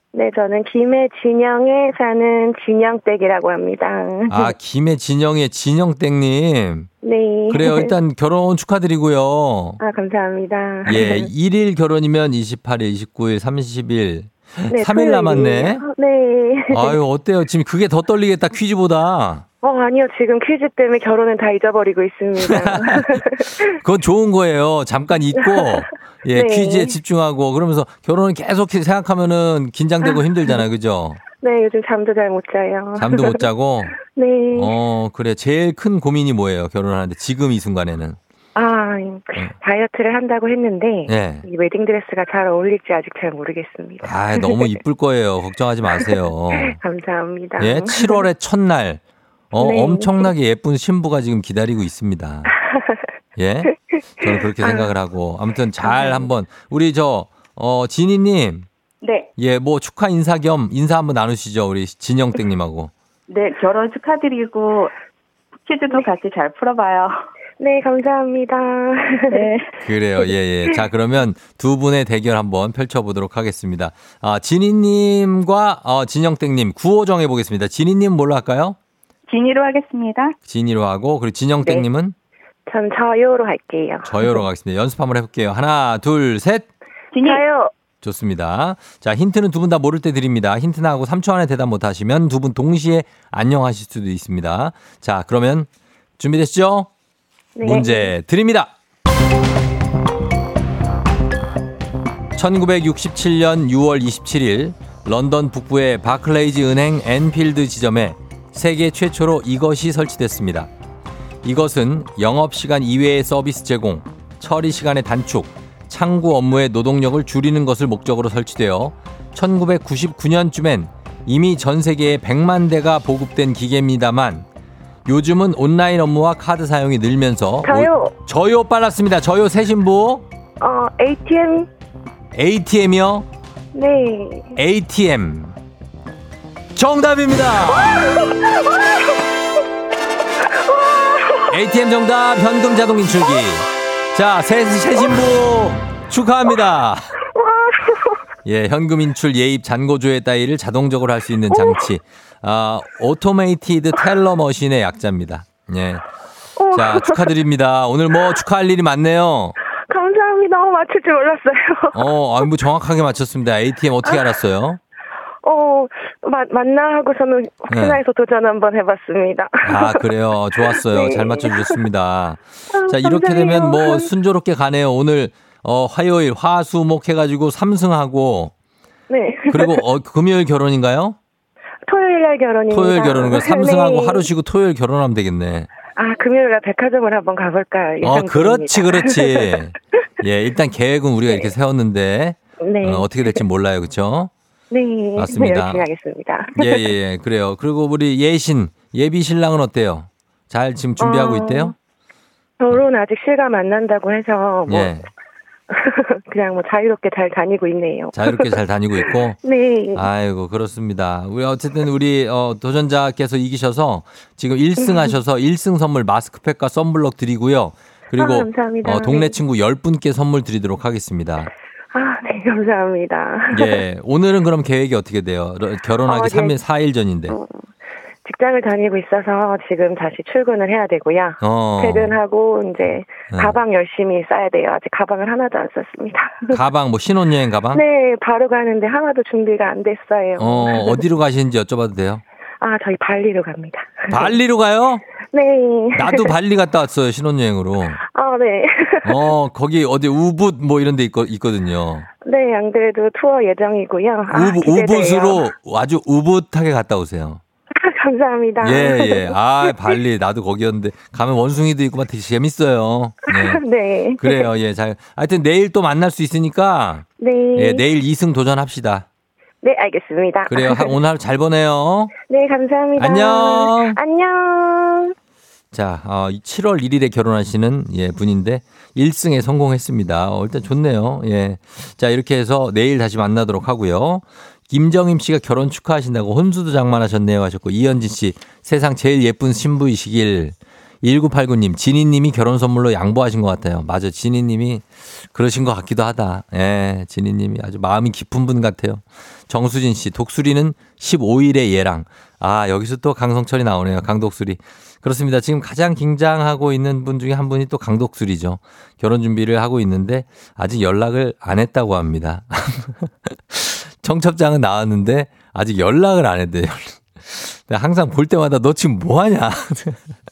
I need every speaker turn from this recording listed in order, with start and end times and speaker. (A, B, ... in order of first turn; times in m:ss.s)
0:00.1-0:04.5 A
0:04.3-0:06.9 B
0:07.0-0:07.9 A
0:07.5-0:09.8 B
0:09.8-0:11.3 A
0:10.8-0:15.8 B
0:14.7-0:17.0 A
0:16.7-0:19.4 B
0:19.6-0:23.7 A
0:22.4-0:31.2 B
0:25.4-0:26.9 A
0:30.0-0:30.6 A
0:31.4-0:33.4 A
0:33.0-0:34.0 B
0:34.0-0:34.7 A
0:34.5-0:38.2 B
0:38.6-0:44.7 A
0:41.1-0:41.4 B
0:44.0-0:46.8 B
0:46.0-0:48.2 A
0:47.6-0:52.5 B
0:49.6-0:50.3 A
0:53.4-0:58.7 B
0:54.2-0:54.9 A
0:55.8-0:56.2 A
0:59.0-0:59.3 C
0:59.4-1:02.9 B
1:03.3-1:04.9 C
1:05.7-1:07.1 C
1:07.6-1:09.5 A
1:09.3-1:09.7 C
1:09.8-1:18.8 B
1:19.3-1:20.3 C
1:20.4-1:22.1 B
1:22.7-1:24.3 A
1:24.0-1:26.7 B
1:27.1-1:27.5 C
1:27.2-1:27.7 A
1:28.0-1:35.7 B
1:36.2-1:36.9 B
1:37.6-1:38.1 A
1:37.6-1:38.7 B
1:42.4-1:50.7 B
1:51.4-2:04.4 B
2:05.1-2:10.2 B
2:07.6-2:08.1 A
2:10.6-2:11.7 A
2:12.3-2:13.3 B
2:13.7-2:14.6 A
2:14.6-2:15.6 B
2:16.8-2:18.2 B
2:18.1-2:18.8 A
2:20.6-2:21.5 A
2:21.5-2:27.1 B
2:27.3-2:28.2 A
2:28.4-2:36.0 B
2:31.5-2:31.8 A
2:36.6-2:37.3 A
2:36.7-2:39.6 B
2:39.9-2:42.0 A
2:41.9-2:44.8 B
2:45.4-2:51.7 A
2:47.7-2:48.0 B
2:49.6-2:58.5 B
2:52.7-2:54.1 A
2:59.1-2:59.8 A
2:59.5-3:01.2 B
3:01.9-3:04.3 A
3:02.7-3:05.7 B
3:06.0-3:09.6 A
3:08.0-3:14.3 B
3:12.6-3:13.4 A
3:14.7-3:16.9 A
3:15.2-3:15.9 B
3:16.5-3:21.7 B
3:21.0-3:21.7 A
3:22.6-3:24.9 A
3:24.7-3:25.1 B
3:25.7-3:28.6 A
3:28.1-3:29.4 B
3:29.4-3:30.0 A
3:30.0-3:41.5 B
3:34.8-3:35.1 A
3:38.2-3:39.4 A
3:41.9-3:43.8 A
3:43.5-3:47.4 B
3:46.1-3:46.6 A
3:47.3-3:47.6 A
3:48.2-3:56.6 A
3:51.4-3:52.2 B
3:53.3-3:53.6 B
3:56.5-3:57.8 B
3:57.7-4:01.0 A
4:00.4-4:02.2 B
4:02.6-4:04.3 A
4:04.1-4:05.0 B
4:05.3-4:06.3 A
4:06.0-4:08.0 B
4:08.1-4:09.2 A
4:09.0-4:12.1 B
4:12.2-4:15.5 A
4:14.3-4:17.4 B
4:17.7-4:20.0 A
4:18.6-4:23.6 B
4:23.3-4:24.5 A
4:24.2-4:29.1 B
4:27.2-4:27.8 A
4:29.6-4:31.0 A
4:30.5-4:32.1 B
4:32.3-4:35.1 A
4:33.0-4:34.0 B
4:35.7-5:20.0 B